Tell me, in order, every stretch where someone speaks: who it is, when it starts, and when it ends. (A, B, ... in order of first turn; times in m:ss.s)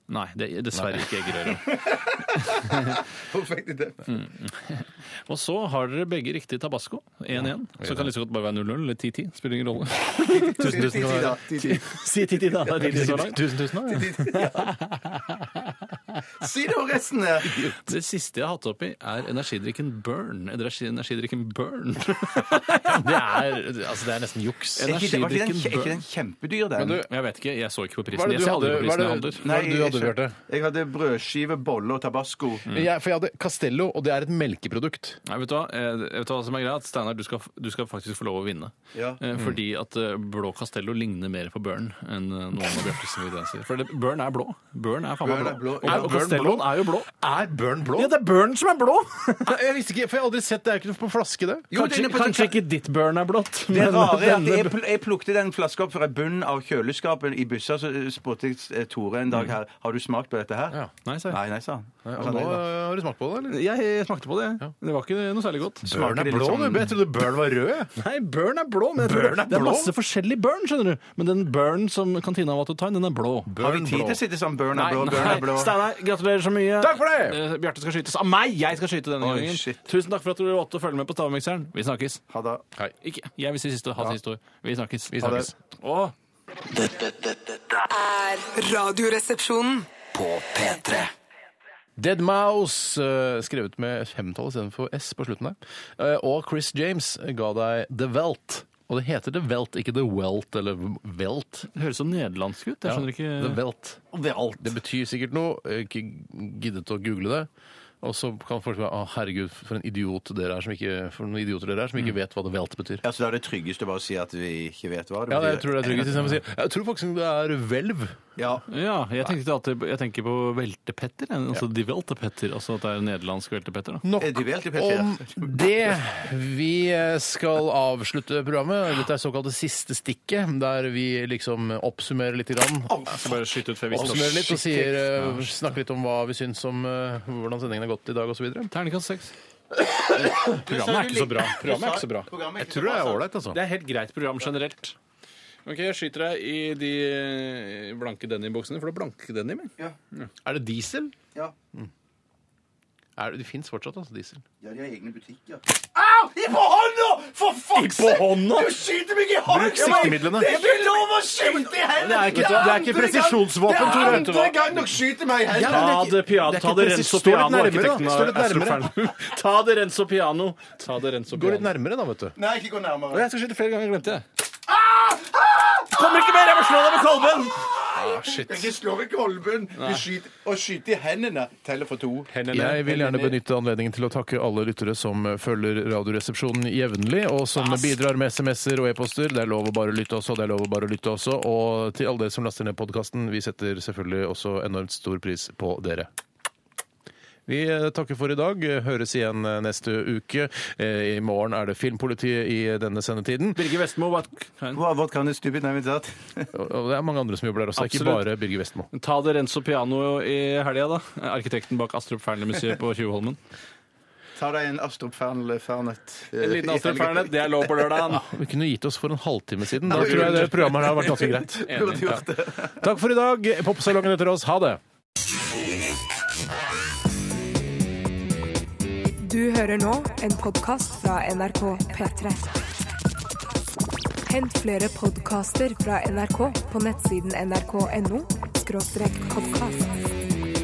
0:00.1-0:03.0 A
0:00.7-0:01.1 B
0:01.6-0:04.2 C
0:04.1-0:10.8 A
0:07.8-0:08.1 B
0:10.3-0:12.1 C
0:10.6-0:11.4 B
0:11.6-0:13.4 A
0:12.8-0:14.2 B
0:12.8-0:14.8 C
0:14.2-0:16.2 A
0:16.4-0:17.5 C
0:17.4-0:17.9 B
0:17.8-0:23.4 A
0:22.8-0:24.9 B
0:24.8-0:26.0 A
0:24.8-0:27.0 C
0:26.8-0:27.1 B
0:27.0-0:29.4 A
0:28.1-0:30.4 B
0:29.4-0:32.6 C
0:32.7-0:35.2 B
0:35.2-0:47.1 A
0:38.9-0:39.2 C
0:45.2-0:46.1 C
0:45.8-0:48.1 B
0:47.9-0:49.5 A
0:49.4-0:51.7 B
0:51.7-0:52.6 C
0:51.7-0:54.7 A
0:53.7-1:00.8 C
1:01.0-1:01.4 A
1:01.3-1:02.6 C
1:02.0-1:03.6 B
1:03.5-1:05.8 A
1:05.8-1:07.9 B
1:05.8-1:06.9 C
1:08.0-1:13.5 A
1:09.0-1:09.9 B
1:13.5-1:14.2 B
1:13.6-1:15.8 C
1:14.7-1:15.4 B
1:15.0-1:22.2 A
1:16.8-1:17.4 B
1:19.2-1:19.8 C
1:22.3-1:22.6 C
1:23.0-1:26.1 A
1:25.1-1:25.5 B
1:26.6-1:27.8 D
1:27.9-1:29.9 E
1:30.1-1:31.1 D
1:32.0-1:41.7 B
1:41.7-1:43.6 A
1:42.8-1:47.5 B
1:44.1-1:44.7 C
1:48.0-1:53.0 B
1:53.0-1:56.2 C
1:55.3-1:58.2 B
1:58.4-1:58.6 C
1:58.7-2:04.0 A
2:04.0-2:13.3 B
2:04.2-2:05.6 C
2:12.9-2:15.5 A
2:13.9-2:18.7 B
2:18.7-2:19.3 A
2:20.1-2:23.2 C
2:20.2-2:22.3 A
2:22.6-2:23.6 B
2:23.5-2:25.0 A
2:25.6-2:30.3 A
2:30.4-2:31.1 B
2:33.2-2:34.4 B
2:34.6-2:45.9 C
2:37.7-2:38.8 A
2:39.4-2:40.5 B
2:42.0-2:44.6 A
2:42.3-2:42.9 B
2:43.8-2:44.3 B
2:45.5-2:48.9 B
2:45.6-2:51.7 A
2:51.3-2:52.3 B
2:52.4-2:53.3 C
2:53.1-2:54.2 A
2:54.7-2:55.9 C
2:55.9-2:57.8 A
2:57.6-3:02.3 C
2:57.9-2:58.7 B
2:59.8-3:00.0 A
3:02.3-3:03.4 A
3:02.5-3:16.1 B
3:17.5-3:23.6 B
3:23.6-3:24.8 A
3:24.7-3:26.5 C
3:26.5-3:28.9 B
3:27.8-3:28.2 A
3:28.9-3:33.4 A
3:34.4-3:37.8 C
3:36.4-3:38.3 A
3:38.1-3:44.8 B
3:39.9-3:41.1 A
3:39.9-3:42.9 C
3:41.6-3:42.1 A
3:49.2-3:52.5 E
3:54.2-3:59.8 E